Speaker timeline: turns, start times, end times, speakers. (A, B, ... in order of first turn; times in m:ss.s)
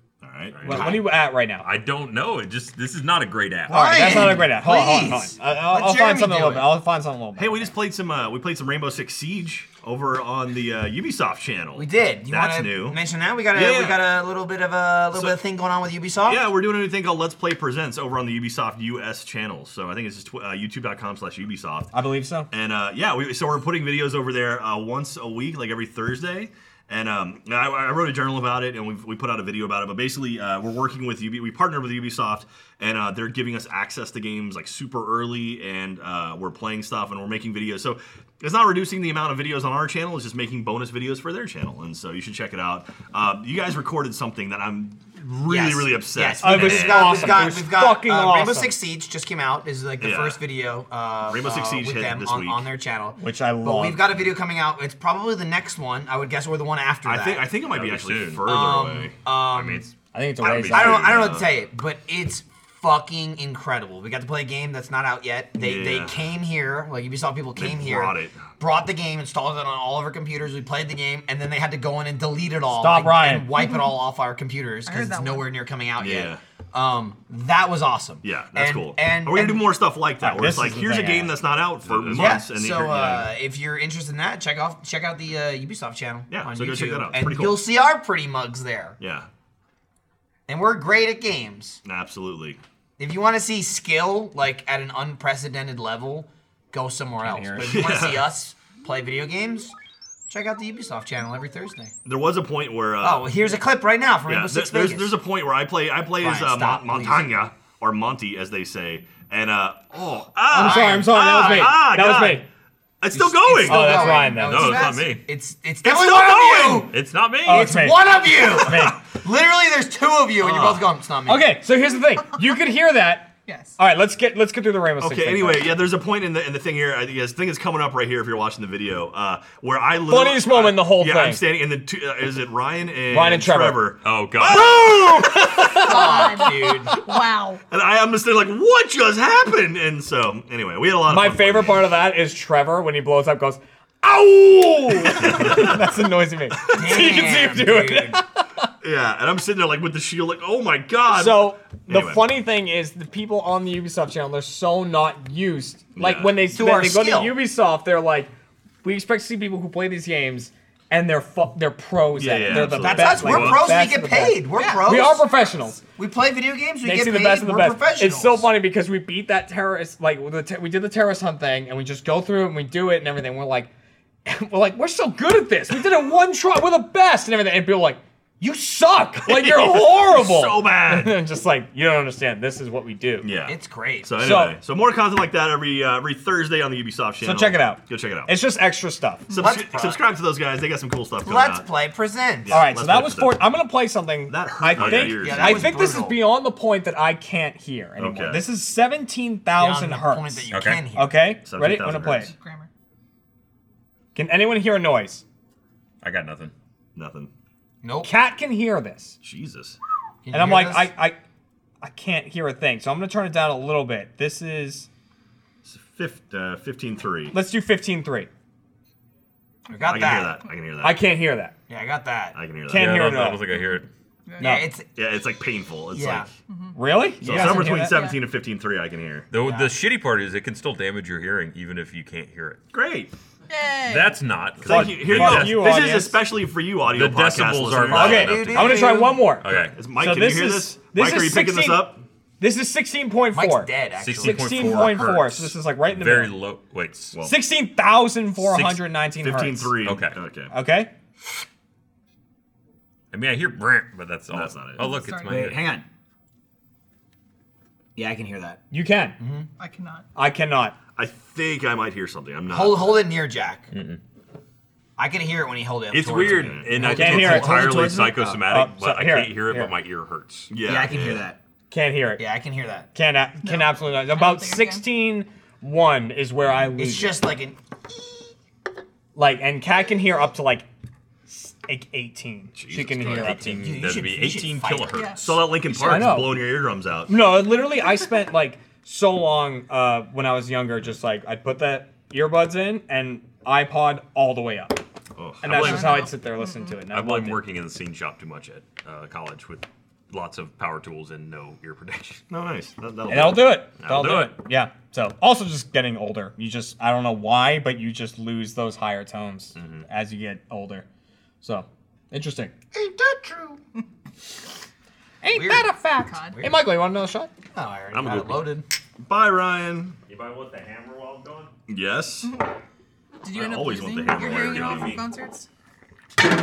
0:00.2-0:00.9 A
0:00.5-0:04.3 B
0:00.6-0:01.7 C
0:00.7-0:01.0 D
0:03.7-0:07.7 C
0:03.7-0:06.7 D
0:07.4-0:13.0 A
0:11.7-0:16.5 D
0:13.5-0:14.0 A
0:15.1-0:15.4 A
0:16.2-0:21.9 A
0:21.9-0:22.5 C
0:22.5-0:47.4 A
0:45.4-0:57.6 D
0:46.4-0:48.8 C
0:50.0-0:50.4 A
0:51.3-0:52.6 A
0:53.2-0:54.1 C
0:57.0-0:59.2 A
0:57.6-0:58.5 B
0:58.4-0:59.9 D
0:59.5-1:01.3 B
1:00.1-1:01.2 C
1:00.5-1:19.7 D
1:00.7-1:01.5 A
1:05.6-1:06.3 A
1:07.6-1:08.5 A
1:12.7-1:13.5 C
1:13.6-1:13.9 E
1:14.8-1:15.5 E
1:16.0-1:16.4 A
1:18.2-1:23.3 A
1:20.2-1:21.4 C
1:21.8-1:22.4 B
1:22.1-1:29.0 D
1:26.3-1:27.6 A
1:29.0-1:29.3 A
1:30.5-1:31.8 D
1:31.8-1:32.6 A
1:33.0-1:39.7 D
1:37.2-1:37.7 C
1:37.6-1:38.2 A
1:40.3-1:41.9 D
1:42.0-1:43.6 A
1:43.0-1:45.2 D
1:44.2-1:52.4 A
1:46.2-1:47.3 D
1:50.5-1:52.4 C
1:50.5-1:51.7 D
1:53.0-1:54.4 A
1:53.1-2:01.5 D
1:53.6-1:54.9 C
1:54.4-1:55.3 B
1:55.8-1:56.8 A
1:56.8-1:57.7 B
1:57.4-1:59.0 C
2:00.4-2:00.8 A
2:01.2-2:05.8 C
2:03.4-2:03.8 E
2:05.0-2:15.9 A
2:10.1-2:11.4 C
2:13.1-2:13.9 C
2:14.0-2:14.8 B
2:14.5-2:16.3 C
2:15.7-2:17.0 D
2:15.7-2:17.6 E
2:17.7-2:21.9 A
2:21.0-2:28.7 C
2:25.1-2:25.9 A
2:26.7-2:28.2 D
2:28.8-2:32.3 A
2:31.1-2:38.3 C
2:36.0-2:36.4 A
2:36.5-2:37.4 D
2:38.8-2:45.8 C
2:42.1-2:43.7 A
2:42.5-2:45.3 D
2:44.5-2:44.9 E
2:45.8-2:48.4 D
2:46.8-2:53.7 C
2:54.2-3:03.3 C
2:59.2-3:01.2 A
3:03.2-3:08.3 A
3:03.4-3:04.1 D
3:04.2-3:04.6 C
3:07.2-3:09.3 C
3:09.3-3:11.6 A
3:09.3-3:10.0 D
3:11.2-3:12.6 D
3:12.4-3:13.5 A
3:12.5-3:22.3 C
3:14.3-3:15.9 A
3:14.9-3:16.2 D
3:18.0-3:18.5 A
3:19.6-3:21.2 D
3:20.5-3:20.9 B
3:21.4-3:22.3 A
3:22.3-3:22.7 E
3:24.1-3:25.2 C
3:26.0-3:26.5 B
3:26.9-3:27.3 A
3:27.8-3:28.1 D
3:28.0-3:29.2 C
3:29.2-3:29.8 A
3:30.2-3:30.9 D
3:30.3-3:31.2 C
3:31.8-3:34.9 C
3:35.6-3:37.4 A
3:37.3-3:38.3 C
3:39.7-3:40.5 E
3:39.7-3:40.4 D
3:39.8-3:41.0 A
3:40.8-3:41.5 C
3:41.7-3:42.4 D
3:42.3-3:43.2 A
3:42.7-3:43.5 C
3:42.7-3:43.9 B
3:43.5-3:44.5 E
3:44.4-3:44.7 C
3:44.4-3:44.9 D
3:44.9-3:46.3 A
3:45.9-3:46.3 D
3:46.5-3:46.8 E
3:46.8-3:48.0 C
3:47.2-3:49.3 A
3:47.3-3:47.6 B
3:47.6-3:48.2 E
3:49.3-3:52.7 B
3:49.4-3:49.7 D
3:52.7-3:53.1 A
3:53.5-3:54.4 E
3:53.8-3:55.7 B
3:54.6-4:02.0 A
3:54.6-3:56.2 C
3:56.8-3:59.8 B
3:57.9-3:59.2 D
3:57.9-4:06.3 C
4:03.3-4:05.2 D
4:04.0-4:07.2 B
4:07.2-4:09.8 C
4:08.4-4:10.5 A
4:09.8-4:10.2 B
4:10.5-4:10.9 C
4:13.1-4:15.8 B
4:14.3-4:14.9 A
4:14.8-4:15.6 E
4:15.2-4:15.8 D
4:18.0-4:18.6 D
4:18.7-4:19.2 C
4:19.2-4:19.5 D
4:19.6-4:20.0 E
4:20.2-4:20.8 C
4:21.0-4:22.9 A
4:22.5-4:23.7 D
4:23.7-4:24.0 B
4:25.0-4:27.8 D
4:25.9-4:30.6 B
4:26.3-4:27.5 A
4:26.8-4:29.7 C
4:30.5-4:31.3 A
4:30.6-4:31.4 D
4:31.7-4:32.2 C
4:32.2-4:32.9 D
4:32.9-4:37.2 C
4:33.4-4:34.8 E
4:36.8-4:38.3 D
4:39.1-4:40.6 C
4:41.3-4:43.7 C
4:42.5-4:43.4 A
4:43.0-4:45.3 B
4:43.4-4:46.2 D
4:44.9-4:45.2 E
4:45.2-4:47.2 A
4:45.8-4:46.4 C
4:47.1-4:54.8 C
4:55.2-4:56.1 A
4:55.4-4:57.4 C
4:55.5-4:56.0 B
4:55.5-4:56.8 E
4:56.8-5:02.3 B
5:02.3-5:03.7 A
5:03.1-5:10.8 C
5:03.7-5:04.4 B
5:09.5-5:09.9 B
5:11.4-5:12.5 C
5:12.7-5:13.6 D
5:15.2-5:17.3 C
5:15.3-5:15.8 D
5:15.8-5:16.4 E
5:16.3-5:16.5 D
5:17.5-5:18.6 D
5:17.9-5:18.2 A
5:18.1-5:18.4 B
5:19.0-5:20.0 A
5:20.0-5:21.6 B
5:21.6-5:22.3 A
5:22.2-5:22.5 E
5:23.2-5:25.5 E
5:23.3-5:25.0 A
5:24.2-5:25.1 B